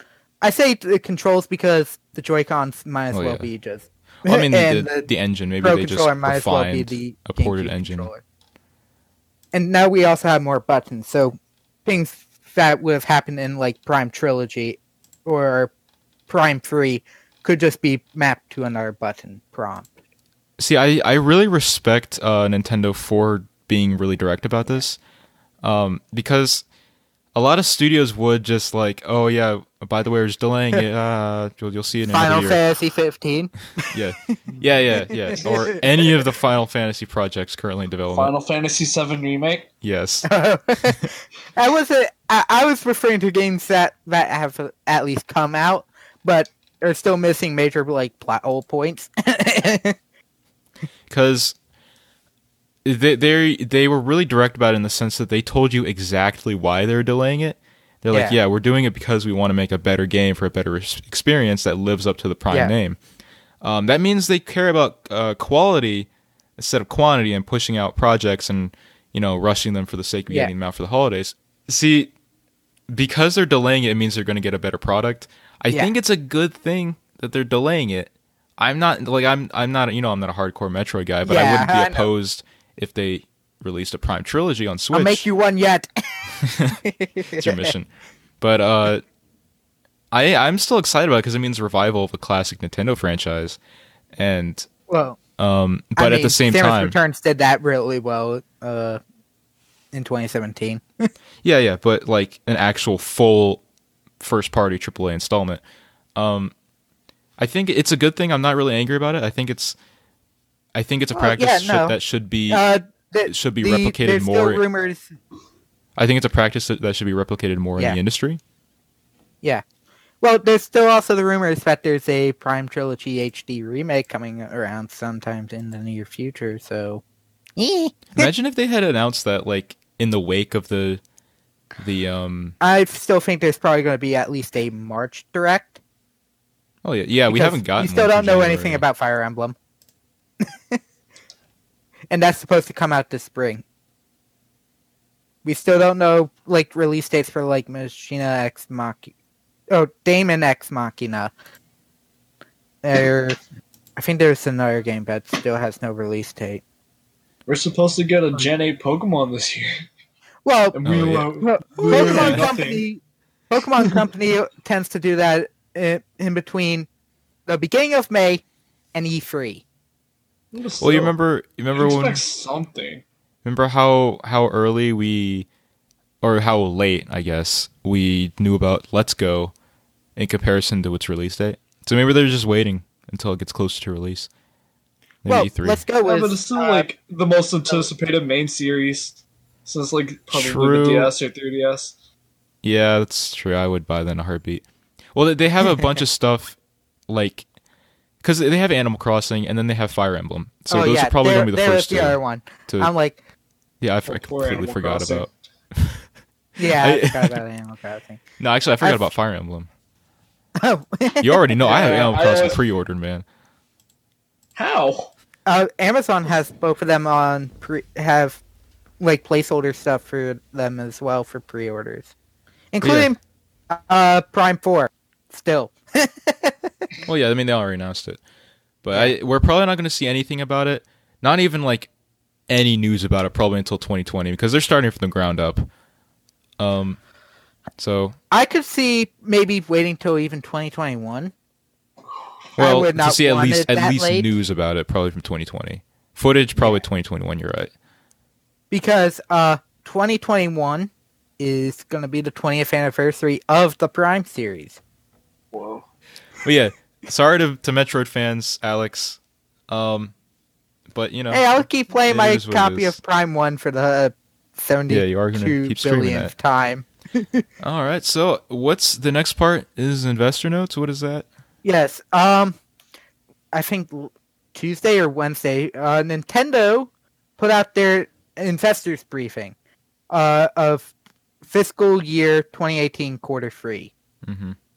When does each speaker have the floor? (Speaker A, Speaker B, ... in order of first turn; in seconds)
Speaker A: 0.4-5.1, 5.6-8.2, 9.5-15.7, 16.3-19.9, 32.1-34.4, 35.1-35.8, 40.2-50.0, 58.1-58.4, 81.2-82.1, 84.9-87.7, 94.9-95.2, 96.0-99.0, 99.9-101.1, 111.1-112.0, 112.5-115.1, 120.2-127.0, 127.6-128.3, 132.6-135.8, 137.3-139.6, 140.4-140.8, 142.1-143.6, 145.4-149.1, 149.7-151.3, 152.8-153.4, 154.0-156.6, 160.4-160.8, 161.4-166.9, 167.5-169.6, 185.3-186.9, 200.7-203.2, 206.6-208.2, 208.8-209.1, 210.6-212.4, 215.5-218.4, 219.0-222.1, 222.7-223.2, 223.7-226.7, 238.3-241.3, 242.6-244.3, 248.7-254.8, 261.3-267.4, 271.6-272.6, 273.5-279.6, 280.1-283.9
Speaker B: 3.1-3.5, 4.3-8.1, 20.6-25.0, 25.6-26.6, 27.4-32.6, 33.9-38.3, 39.8-40.3, 40.8-41.1, 51.1-51.5, 52.9-63.0, 63.6-72.1, 72.9-85.2, 86.4-86.8, 87.4-87.9, 88.4-89.0, 90.1-93.6, 94.2-94.7, 95.4-97.0, 101.4-103.6, 104.2-105.6, 106.2-106.5, 107.4-109.8, 110.7-112.6, 113.3-114.6, 116.0-118.4, 128.2-131.0, 131.8-132.6, 136.8-138.8, 160.8-161.3, 162.0-162.5, 170.8-172.2, 173.4-175.5, 176.2-179.5, 180.2-184.3, 185.2-185.8, 190.3-191.1, 192.6-196.6, 197.1-197.5, 198.2-202.9, 203.8-206.1, 206.6-207.4, 208.4-209.7, 211.2-213.2, 222.8-223.1, 227.1-228.2, 228.8-231.9, 232.5-235.7, 236.6-237.0, 237.8-238.2, 242.6-247.7, 256.4-260.1, 260.9-263.0, 264.9-266.3, 267.6-271.3, 284.2-284.6
Speaker C: 38.1-39.7, 157.5-159.7, 160.8-162.8, 170.5-171.1, 171.8-173.0, 186.0-191.9, 204.1-205.3, 211.6-212.6, 214.6-215.1, 255.5-255.8